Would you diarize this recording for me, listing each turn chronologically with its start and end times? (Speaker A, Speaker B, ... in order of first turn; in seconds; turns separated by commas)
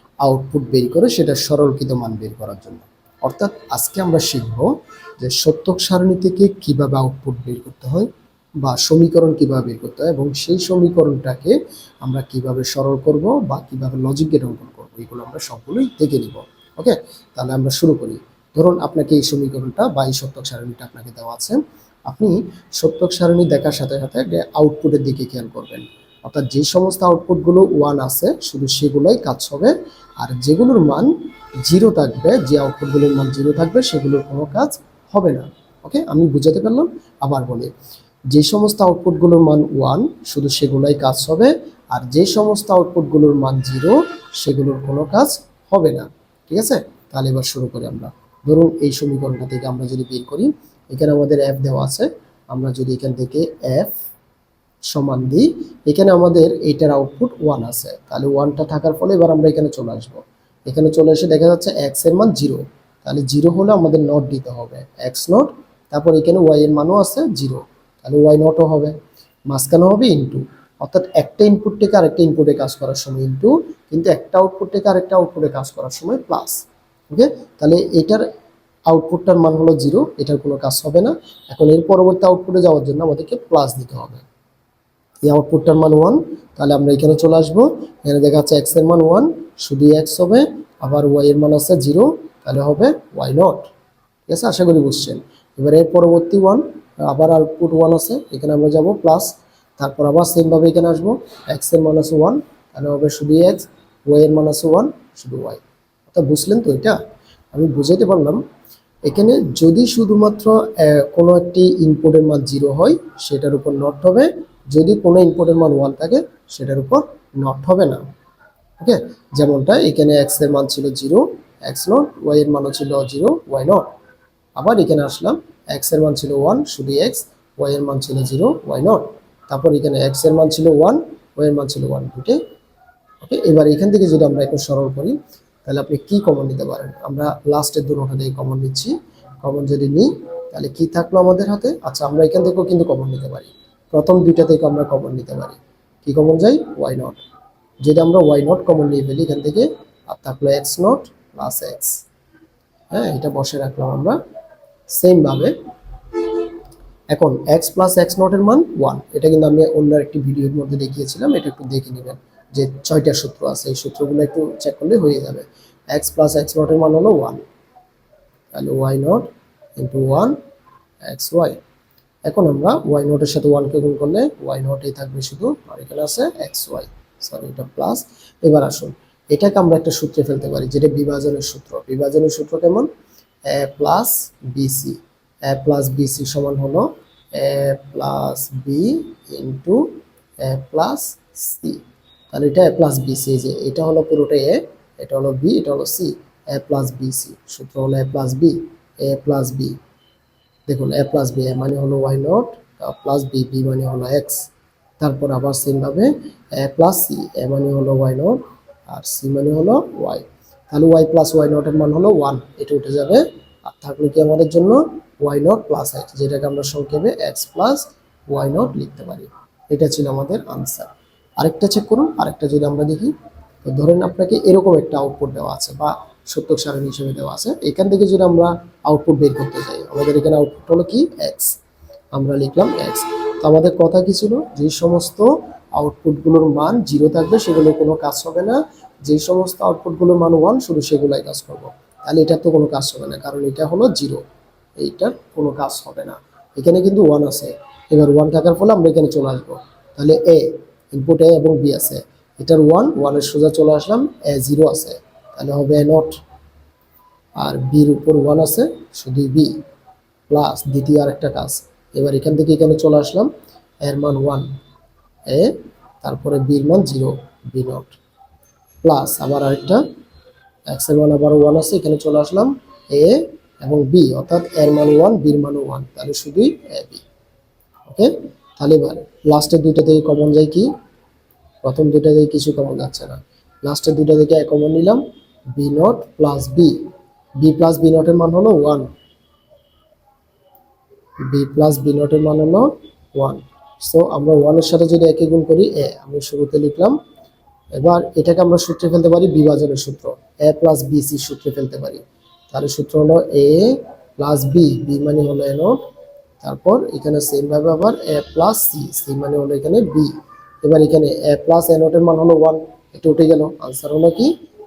Speaker A: 0.2-8.1, Speaker A: 8.6-31.1, Speaker A: 31.6-37.7, Speaker A: 38.3-54.0, Speaker A: 54.9-69.0, Speaker A: 69.5-76.6, Speaker A: 77.1-78.2, Speaker A: 78.9-84.2, Speaker A: 85.2-93.7, Speaker A: 94.3-107.0, Speaker A: 107.5-108.4, Speaker A: 109.1-118.0, Speaker A: 118.8-123.8, Speaker A: 124.6-132.4, Speaker A: 133.2-147.2, Speaker A: 147.8-152.0, Speaker A: 152.9-154.2, Speaker A: 154.9-155.5, Speaker A: 157.1-167.4, Speaker A: 168.5-170.3, Speaker A: 171.1-171.6, Speaker A: 172.3-182.9, Speaker A: 183.5-189.8, Speaker A: 190.4-199.8, Speaker A: 200.7-223.1, Speaker A: 223.7-231.6, Speaker A: 232.2-244.2, Speaker A: 244.8-256.2, Speaker A: 257.4-259.5, Speaker A: 260.3-263.3, Speaker A: 263.8-264.5, Speaker A: 265.3-268.0, Speaker A: 268.8-269.8, Speaker A: 270.7-277.0, Speaker A: 277.9-280.7, Speaker A: 281.6-285.0, Speaker A: 285.6-286.8, Speaker A: 287.4-288.9, Speaker A: 291.3-297.0, Speaker A: 297.8-305.8, Speaker A: 306.4-310.1, Speaker A: 310.6-314.3